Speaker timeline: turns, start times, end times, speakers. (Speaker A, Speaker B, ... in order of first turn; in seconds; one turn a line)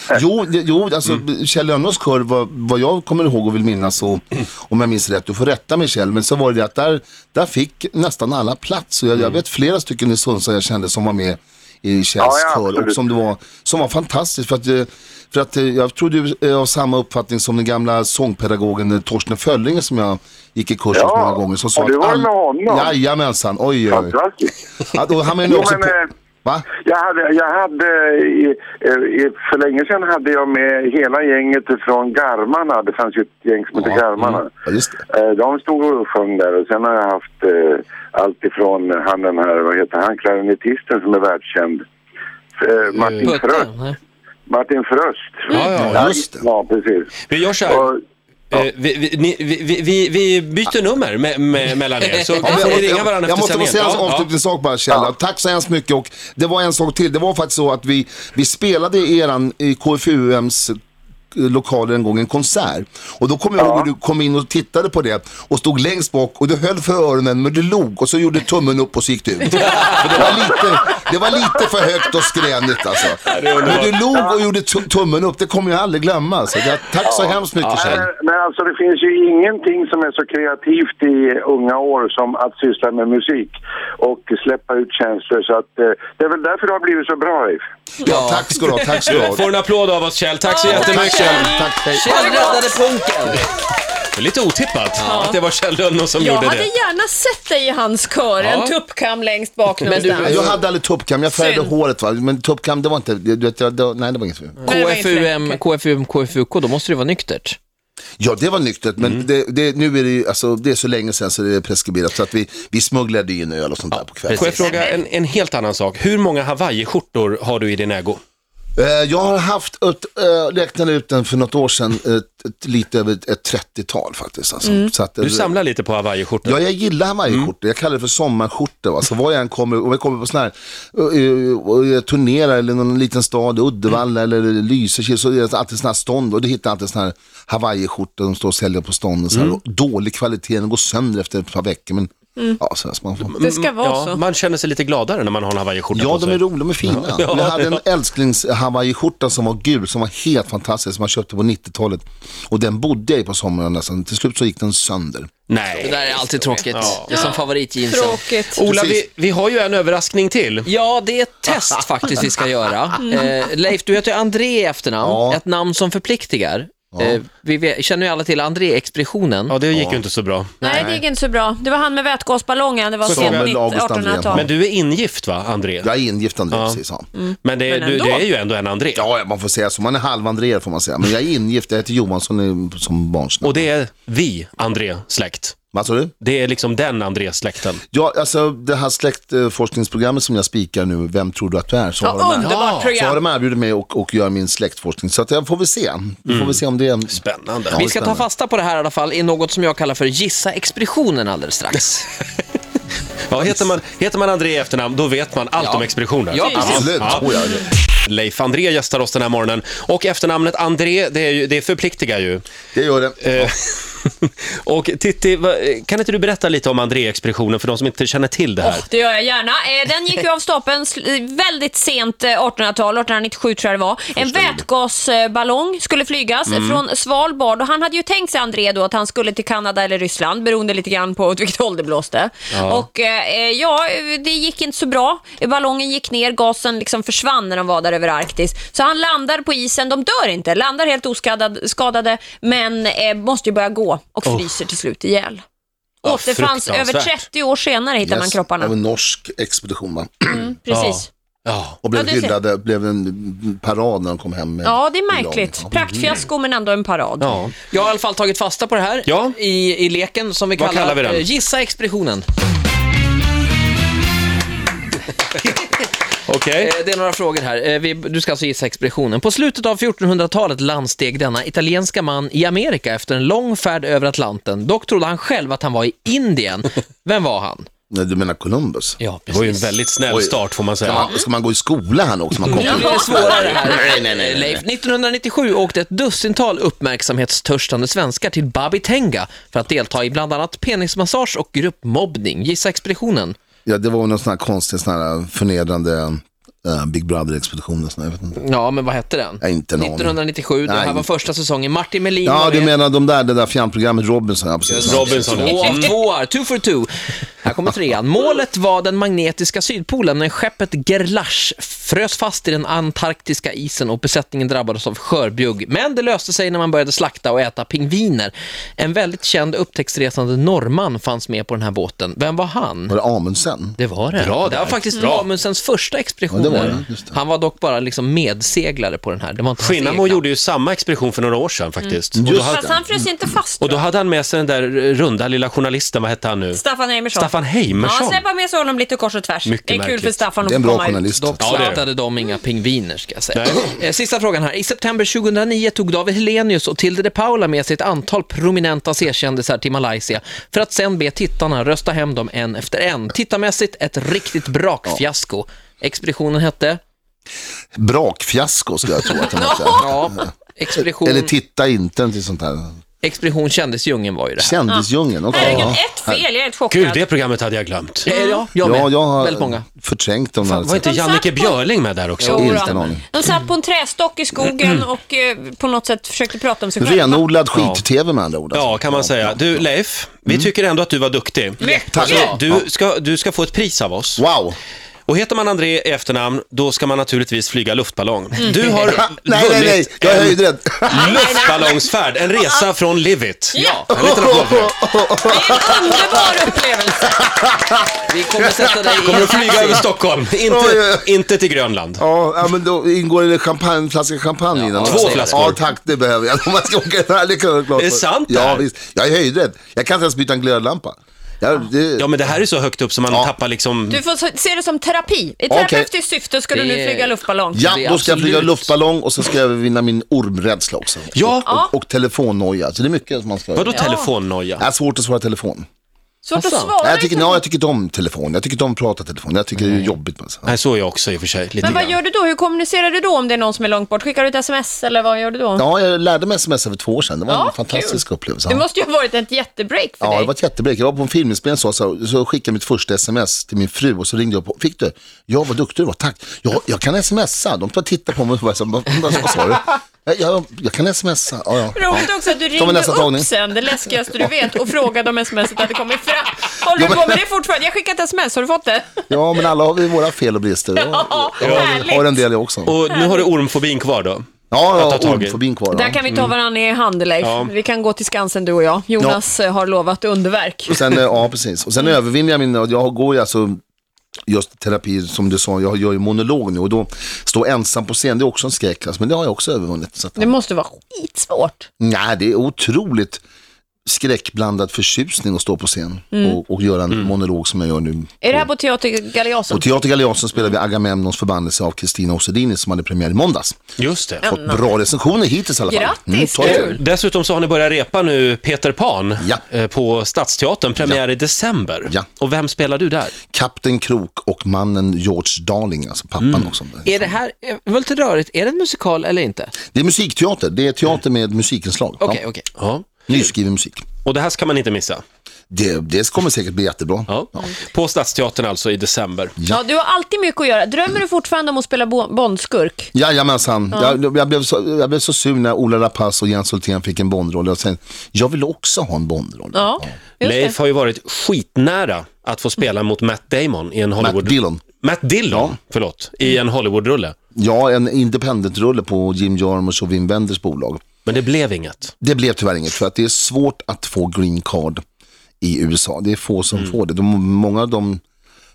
Speaker A: 0.1-24.1
Speaker B: 12.2-13.0
Speaker B: 20.9-22.9
Speaker B: 23.9-24.5
Speaker A: 24.9-26.7
Speaker B: 25.5-26.1
Speaker B: 26.8-34.5
Speaker A: 33.7-34.1
Speaker A: 34.6-35.0
Speaker B: 35.1-41.8
Speaker B: 42.6-43.7
Speaker C: 43.0-43.3
Speaker D: 43.2-44.0
Speaker B: 44.5-47.1
Speaker C: 45.5-46.0
Speaker A: 45.8-46.4
Speaker C: 47.3-47.9
Speaker B: 47.6-48.0
Speaker C: 48.5-54.2
Speaker D: 52.0-52.7
Speaker A: 52.4-60.7
Speaker A: 61.3-78.0
Speaker B: 63.6-63.9
Speaker C: 69.7-70.3
Speaker C: 73.3-74.0
Speaker B: 74.1-74.4
Speaker B: 77.0-87.6
Speaker C: 77.6-78.0
Speaker A: 88.0-89.5
Speaker D: 88.0-89.0
Speaker C: 89.1-91.6
Speaker E: 90.4-92.7
Speaker A: 90.7-92.6
Speaker D: 91.9-93.5
Speaker C: 94.1-96.7
Speaker D: 95.0-95.3
Speaker E: 95.0-95.4
Speaker E: 96.2-100.4
Speaker C: 98.4-98.7
Speaker D: 99.9-100.6
Speaker A: 100.0-104.7
Speaker E: 101.2-101.7
Speaker D: 104.6-107.6
Speaker E: 104.7-105.6
Speaker A: 108.2-114.7
Speaker C: 114.3-118.2
Speaker E: 114.7-115.0
Speaker A: 118.8-125.5
Speaker C: 125.2-126.6
Speaker A: 126.4-143.3
Speaker C: 139.3-139.6
Speaker C: 143.2-147.8
Speaker E: 143.4-144.2
Speaker A: 145.9-155.9
Speaker C: 155.5-157.3
Speaker D: 155.8-158.2
Speaker E: 157.1-158.6
Speaker C: 158.6-160.7
Speaker A: 158.7-159.0
Speaker D: 160.7-169.6
Speaker E: 163.0-163.3
Speaker A: 165.0-165.4
Speaker A: 166.9-167.2
Speaker C: 169.5-170.8
Speaker A: 169.7-170.0
Speaker A: 170.6-171.1
Speaker E: 170.6-174.4
Speaker C: 173.0-173.6
Speaker A: 173.0-174.5
Speaker C: 174.3-175.9
Speaker A: 175.8-177.1
Speaker C: 176.5-176.8
Speaker E: 177.2-178.3
Speaker C: 177.4-179.0
Speaker A: 178.9-183.7
Speaker C: 183.4-185.6
Speaker A: 185.7-186.1
Speaker C: 186.2-187.8
Speaker A: 187.9-198.3
Speaker E: 192.0-193.2
Speaker C: 192.4-192.9
Speaker C: 196.3-197.8
Speaker D: 197.7-202.0
Speaker C: 203.3-207.3
Speaker D: 205.6-207.2
Speaker A: 206.5-207.7
Speaker C: 207.9-212.4
Speaker A: 212.7-213.5
Speaker C: 213.2-218.9
Speaker E: 218.6-245.4
Speaker A: 224.2-224.7
Speaker C: 226.5-226.8
Speaker C: 232.5-232.8
Speaker C: 244.2-244.6
Speaker C: 246.0-247.2
Speaker E: 246.0-248.7
Speaker A: 248.0-250.4
Speaker E: 250.3-251.1
Speaker C: 250.7-251.8
Speaker A: 251.8-256.1
Speaker E: 251.9-252.3
Speaker E: 254.6-257.4
Speaker C: 257.2-257.5
Speaker D: 257.7-262.2
Speaker C: 259.1-259.4
Speaker C: 260.6-261.2
Speaker C: 266.2-266.7
Speaker D: 266.6-277.7
Speaker A: 277.9-279.0
Speaker D: 279.0-279.8
Speaker C: 279.3-281.1
Speaker A: 280.1-284.6
Speaker D: 282.5-293.4
Speaker A: 293.6-298.4
Speaker D: 298.4-302.7
Speaker A: 299.4-301.1
Speaker A: 302.2-305.9
Speaker D: 304.7-323.0
Speaker C: 304.8-305.9
Speaker A: 322.9-323.8
Speaker D: 323.8-330.2
Speaker C: 324.1-325.2
Speaker A: 326.3-327.2
Speaker C: 329.6-332.6
Speaker E: 331.8-333.9
Speaker A: 332.2-332.9
Speaker C: 333.6-338.2
Speaker E: 336.5-341.1
Speaker C: 339.4-340.2
Speaker A: 340.4-341.7
Speaker D: 341.1-356.8
Speaker C: 341.4-341.8
Speaker C: 343.3-343.6
Speaker A: 357.7-362.7
Speaker E: 359.4-359.8
Speaker D: 359.8-361.3
Speaker D: 363.0-364.6
Speaker A: 364.4-366.2
Speaker E: 364.6-367.1
Speaker C: 365.4-365.6
Speaker C: 366.7-368.1
Speaker D: 368.1-369.6
Speaker E: 368.1-368.4
Speaker A: 368.6-370.9
Speaker C: 370.4-372.9
Speaker E: 370.8-371.6
Speaker D: 372.2-372.7
Speaker E: 372.3-377.2
Speaker A: 372.4-373.1
Speaker C: 374.4-374.9
Speaker A: 376.8-379.6
Speaker C: 377.5-377.8
Speaker C: 378.5-384.2
Speaker D: 381.6-382.4
Speaker A: 381.9-382.6
Speaker A: 384.2-384.6
Speaker C: 385.1-390.4
Speaker D: 388.5-389.0
Speaker A: 388.9-391.5
Speaker E: 390.9-391.9
Speaker C: 390.9-394.7
Speaker E: 393.5-393.8
Speaker D: 393.6-393.9
Speaker A: 393.9-396.4
Speaker E: 395.3-397.2
Speaker A: 397.1-399.2
Speaker D: 398.1-399.9
Speaker C: 399.0-402.0
Speaker A: 400.5-401.1
Speaker A: 402.0-412.2
Speaker D: 404.5-405.5
Speaker C: 404.8-405.6
Speaker C: 407.8-408.6
Speaker C: 412.0-414.0
Speaker E: 413.9-417.6
Speaker A: 415.5-415.9
Speaker D: 416.5-418.8
Speaker A: 417.5-423.9
Speaker C: 421.1-421.5
Speaker E: 421.4-421.7
Speaker C: 423.6-424.6
Speaker E: 423.7-424.1
Speaker A: 424.6-425.6
Speaker E: 426.2-427.4
Speaker D: 426.3-426.8
Speaker A: 426.8-430.5
Speaker C: 430.4-431.9
Speaker E: 431.6-435.6
Speaker A: 435.6-438.6
Speaker E: 437.3-440.3
Speaker A: 440.0-453.3
Speaker E: 451.7-459.0
Speaker A: 456.7-457.2
Speaker A: 459.1-462.8
Speaker E: 460.8-462.1
Speaker C: 461.4-461.9
Speaker C: 462.6-465.4
Speaker A: 464.5-466.1
Speaker E: 465.7-470.7
Speaker C: 467.2-467.5
Speaker A: 470.7-473.6
Speaker A: 474.3-480.3
Speaker E: 480.2-481.7
Speaker A: 481.8-483.2
Speaker A: 483.8-488.5
Speaker E: 486.1-486.4
Speaker E: 488.2-489.7
Speaker A: 489.5-493.6
Speaker C: 493.8-494.2
Speaker E: 494.2-494.6
Speaker A: 494.2-496.8
Speaker E: 495.7-496.8
Speaker C: 496.4-503.1
Speaker A: 503.3-507.1
Speaker C: 506.2-506.5
Speaker D: 506.8-509.5
Speaker A: 509.7-512.2
Speaker D: 512.0-512.5
Speaker C: 512.6-512.9
Speaker A: 513.1-513.8
Speaker C: 514.0-515.0
Speaker A: 515.5-517.4
Speaker C: 517.1-519.3
Speaker E: 519.5-522.9
Speaker A: 522.9-529.9
Speaker E: 529.5-530.5
Speaker C: 530.2-537.1
Speaker A: 534.0-534.6
Speaker A: 535.3-535.5
Speaker A: 537.3-540.8
Speaker C: 541.0-541.9
Speaker A: 542.0-544.8
Speaker A: 545.4-548.0